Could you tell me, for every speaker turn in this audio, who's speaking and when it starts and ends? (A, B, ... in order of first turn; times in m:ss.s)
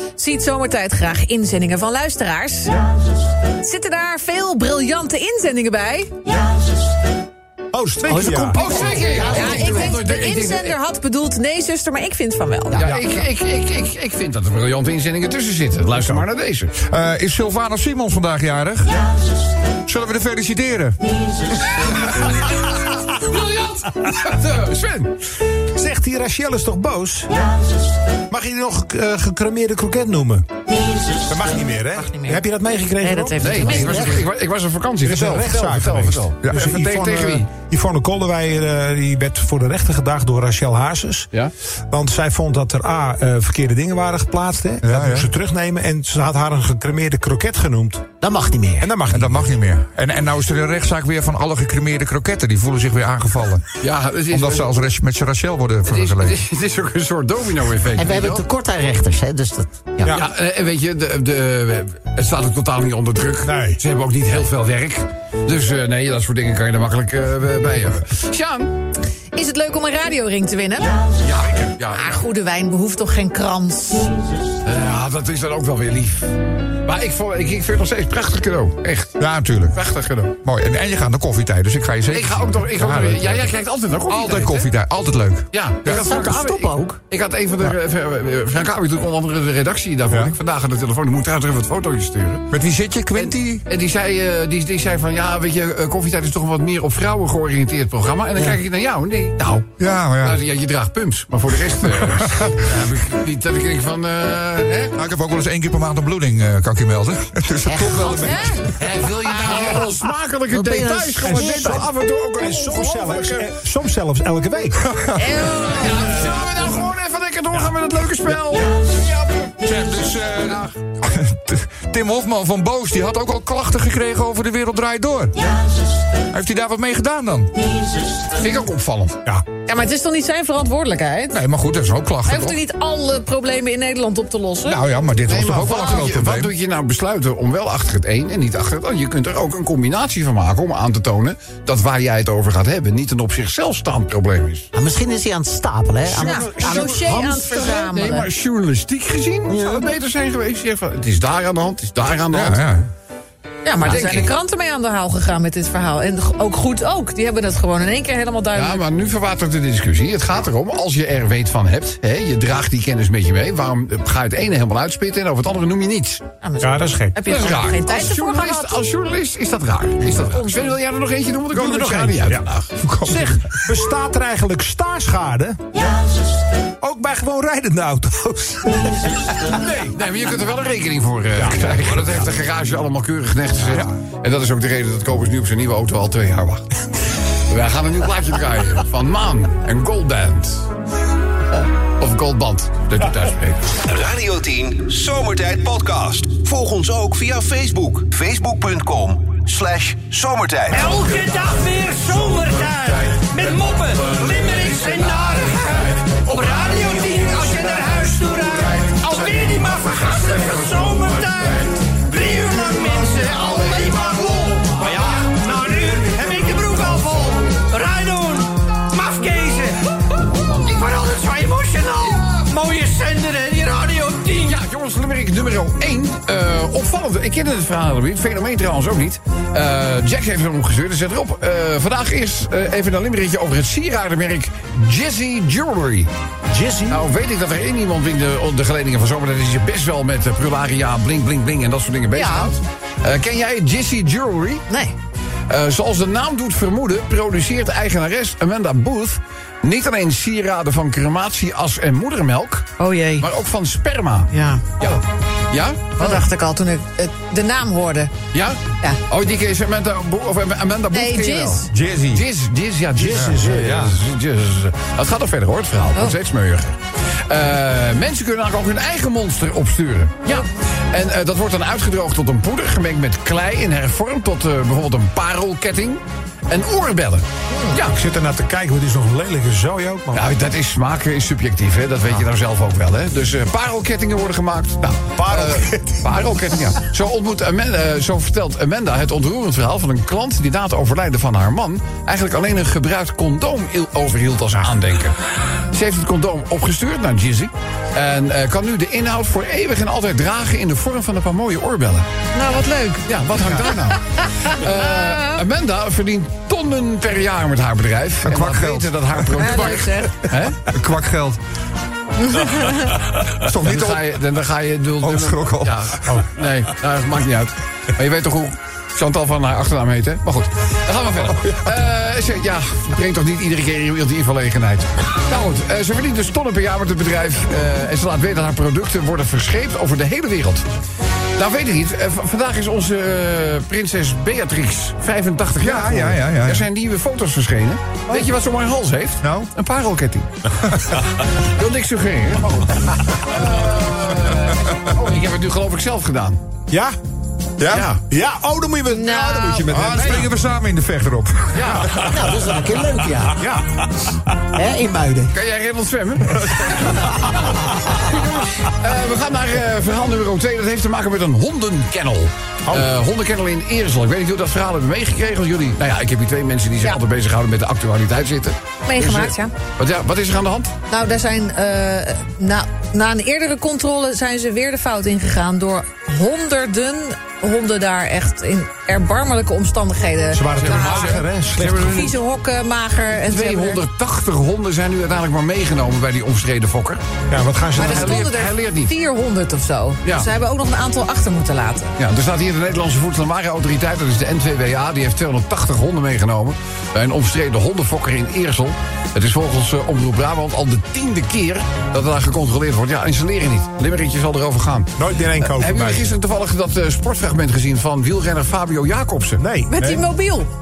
0:00.2-0:02.8 A
0:03.6-0:06.1 A
0:07.7-0:08.6 B
0:08.0-0:10.0 C
0:08.5-0:10.8 D
0:09.2-0:12.8 A
0:12.7-0:13.0 C
0:12.8-0:16.7 D
0:16.9-0:18.9 E
0:19.9-0:21.0 E
0:21.8-0:25.1 D
0:25.7-0:27.3 B
0:28.3-0:30.5 B
0:31.3-0:34.2 B
0:32.0-0:32.4 A
0:33.0-0:34.2 A
0:33.4-0:37.5 D
0:35.0-0:41.3 B
0:41.9-0:48.1 B
0:44.8-0:45.3 E
0:48.2-0:48.9 C
0:48.8-0:49.6 B
0:49.1-0:53.7 E
0:53.8-0:54.7 D
0:54.3-0:56.4 E
0:55.9-0:58.4 D
0:58.0-1:00.1 C
1:00.1-1:08.7 D
1:03.4-1:03.8 B
1:09.3-1:10.9 A
1:11.2-1:12.2 D
1:11.9-1:14.1 A
1:14.6-1:16.3 D
1:16.9-1:19.2 D
1:19.2-1:19.8 E
1:19.7-1:20.3 D
1:20.4-1:23.5 E
1:22.1-1:24.7 D
1:24.1-1:25.5 E
1:25.5-1:32.5 D
1:25.8-1:27.0 C
1:32.5-1:33.6 E
1:33.1-1:45.0 D
1:39.8-1:40.4 E
1:42.0-1:42.6 E
1:45.0-1:48.7 E
1:47.6-1:48.5 C
1:48.2-1:48.7 A
1:48.8-1:53.5 D
1:50.5-1:51.9 C
1:51.2-1:54.9 B
1:54.9-1:55.4 E
1:55.2-1:56.1 A
1:55.5-2:00.7 D
1:59.6-2:05.4 E
2:06.3-2:07.5 E
2:08.4-2:09.2 D
2:09.7-2:11.4 A
2:11.3-2:12.6 E
2:12.2-2:14.8 A
2:14.6-2:16.5 E
2:15.3-2:24.7 D
2:24.7-2:27.5 C
2:26.2-2:28.3 A
2:26.2-2:32.6 D
2:29.5-2:29.9 C
2:32.3-2:32.9 E
2:33.6-2:38.8 A
2:33.8-2:34.3 D
2:38.5-2:46.2 D
2:46.4-2:48.8 A
2:46.6-2:47.2 B
2:47.3-2:52.7 D
2:50.1-2:50.7 A
2:51.5-2:52.4 B
2:52.8-2:53.6 E
2:53.0-2:55.6 B
2:56.8-2:59.1 B
2:59.5-3:06.7 D
3:01.4-3:02.0 B
3:07.5-3:10.7 D
3:12.0-3:13.7 D
3:13.8-3:20.9 F
3:20.7-3:44.6 G
3:44.4-3:56.1 D
3:56.5-3:57.0 B
3:56.9-4:04.6 D
4:02.2-4:02.5 A
4:04.7-4:04.9 A
4:05.5-4:16.2 D
4:12.8-4:13.3 A
4:14.3-4:15.0 A
4:16.0-4:18.1 A
4:18.3-4:26.8 D
4:20.9-4:21.7 A
4:21.7-4:22.2 E
4:23.0-4:24.0 B
4:23.1-4:23.5 E
4:27.3-4:38.0 D
4:37.5-4:37.8 A
4:37.9-4:40.3 B
4:40.1-4:55.2 D
4:45.2-4:46.1 B
4:55.7-5:02.1 D
5:02.4-5:03.1 A
5:03.1-5:10.7 D
5:03.6-5:05.4 A
5:08.2-5:09.4 E
5:09.4-5:10.2 A
5:10.7-5:11.4 E
5:12.2-5:12.9 A
5:13.4-5:14.1 E
5:13.6-5:30.6 D
5:15.0-5:16.2 E
5:31.4-5:40.3 D
5:35.6-5:36.7 E
5:39.2-5:39.5 E
5:41.4-5:46.4 D
5:46.7-5:47.0 B
5:47.6-5:47.9 E
5:47.7-5:50.3 B
5:47.7-5:48.0 D
5:48.9-5:49.7 A
5:49.7-5:51.8 E
5:49.9-5:50.3 D
5:51.5-5:52.0 D
5:51.9-5:53.4 C
5:53.4-5:53.7 B
5:54.5-5:55.4 C
5:55.3-6:10.7 D
6:08.9-6:09.5 A
6:10.9-6:23.8 A
6:20.3-6:22.0 B
6:20.6-6:22.2 D
6:23.3-6:27.0 D
6:27.3-6:28.3 B
6:27.7-6:28.9 D
6:27.8-6:32.0 A
6:32.0-6:49.4 D
6:45.0-6:46.1 B
6:49.4-6:50.0 B
6:49.7-6:50.5 A